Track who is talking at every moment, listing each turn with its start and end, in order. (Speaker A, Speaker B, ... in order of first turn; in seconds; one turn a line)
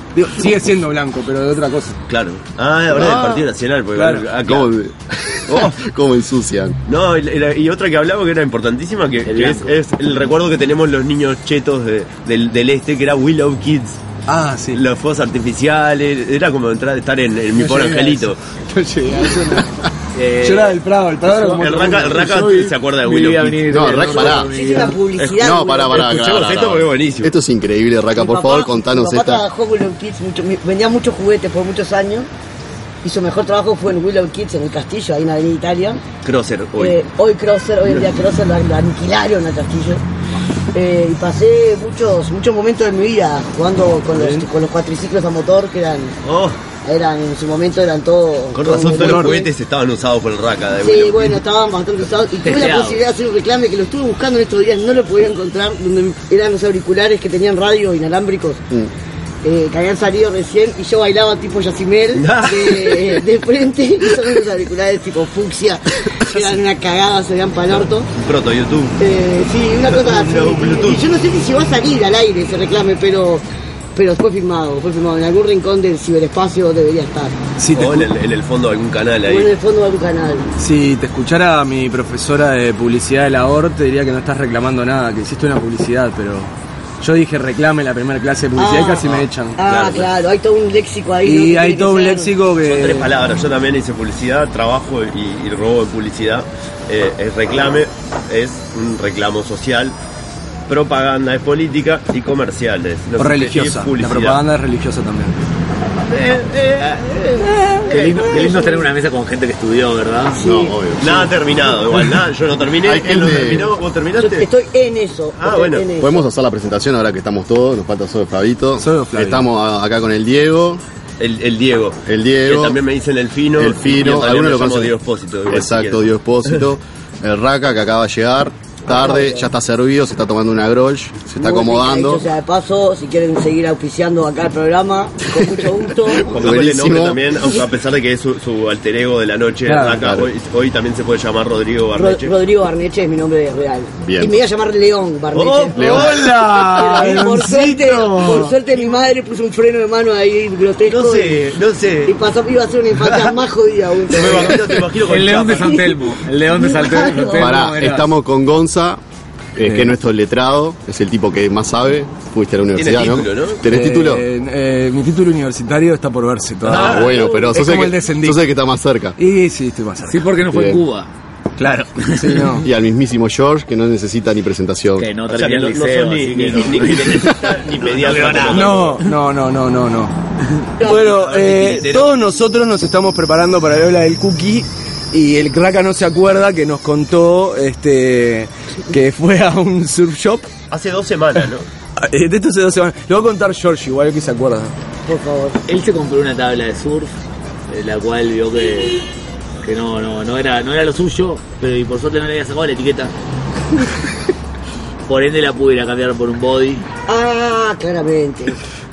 Speaker A: 0.1-2.0
Speaker B: 2.1-4.7
Speaker A: 3.0-4.3
Speaker C: 4.5-6.8
Speaker B: 6.9-14.0
Speaker D: 9.2-9.7
Speaker A: 14.3-14.8
Speaker B: 14.7-18.4
Speaker A: 17.5-19.9
Speaker D: 20.1-25.0
Speaker A: 20.4-22.4
Speaker B: 21.6-23.6
Speaker C: 23.7-24.5
Speaker E: 24.1-26.2
Speaker B: 25.2-27.3
Speaker C: 25.3-29.4
Speaker E: 28.1-32.3
Speaker E: 33.0-36.0
Speaker B: 36.2-37.0
Speaker E: 36.8-40.0
Speaker E: 40.7-46.2
Speaker A: 44.1-44.5
Speaker B: 46.2-46.6
Speaker E: 46.8-49.5
Speaker B: 48.5-51.4
Speaker A: 48.9-49.4
Speaker E: 50.8-58.6
Speaker D: 52.4-53.0
Speaker E: 59.4-68.1
Speaker B: 62.2-63.2
Speaker B: 68.2-69.0
Speaker E: 69.0-73.4
Speaker B: 69.9-71.0
Speaker E: 74.0-77.4
Speaker A: 77.6-78.1
Speaker B: 77.7-79.5
Speaker E: 79.2-80.5
Speaker A: 80.6-89.6
Speaker E: 88.6-92.3
Speaker B: 89.0-90.1
Speaker A: 91.2-93.1
Speaker B: 92.6-100.0
Speaker B: 100.7-104.4
Speaker A: 103.2-105.4
Speaker B: 106.0-108.7
Speaker E: 107.8-108.8
Speaker D: 107.8-110.4
Speaker E: 110.3-110.8
Speaker C: 110.4-111.3
Speaker B: 111.0-114.5
Speaker C: 112.8-113.8
Speaker E: 114.2-116.2
Speaker B: 115.4-115.8
Speaker C: 116.0-120.8
Speaker A: 118.8-119.5
Speaker B: 121.2-126.6
Speaker C: 122.1-122.8
Speaker C: 123.6-125.0
Speaker C: 125.5-132.3
Speaker E: 128.9-129.5
Speaker E: 131.4-136.4
Speaker B: 136.2-142.3
Speaker C: 136.3-137.2
Speaker A: 139.7-140.0
Speaker C: 139.8-140.3
Speaker E: 141.9-146.1
Speaker C: 144.0-144.3
Speaker B: 145.3-146.2
Speaker C: 145.8-146.2
Speaker D: 145.8-147.4
Speaker A: 145.8-148.6
Speaker E: 146.7-151.5
Speaker B: 150.9-152.2
Speaker E: 152.1-154.7
Speaker B: 153.0-153.3
Speaker B: 154.1-155.8
Speaker D: 154.9-158.1
Speaker E: 155.5-157.6
Speaker C: 157.4-159.0
Speaker C: 159.6-164.3
Speaker A: 159.7-159.9
Speaker B: 162.8-163.6
Speaker A: 163.7-168.4
Speaker D: 166.7-167.4
Speaker C: 166.8-169.2
Speaker A: 169.2-170.3
Speaker D: 170.1-171.1
Speaker C: 170.5-170.8
Speaker A: 171.6-172.7
Speaker D: 172.0-172.4
Speaker C: 172.6-175.1
Speaker D: 175.0-179.1
Speaker B: 175.3-179.0
Speaker C: 177.5-178.7
Speaker A: 178.5-180.1
Speaker E: 180.8-181.2
Speaker A: 180.8-190.5
Speaker B: 180.8-182.1
Speaker B: 190.7-191.7
Speaker A: 192.0-194.7
Speaker E: 195.1-195.6
Speaker D: 195.7-197.1
Speaker D: 197.7-199.0
Speaker D: 199.6-203.1
Speaker D: 205.1-206.9
Speaker E: 207.1-208.6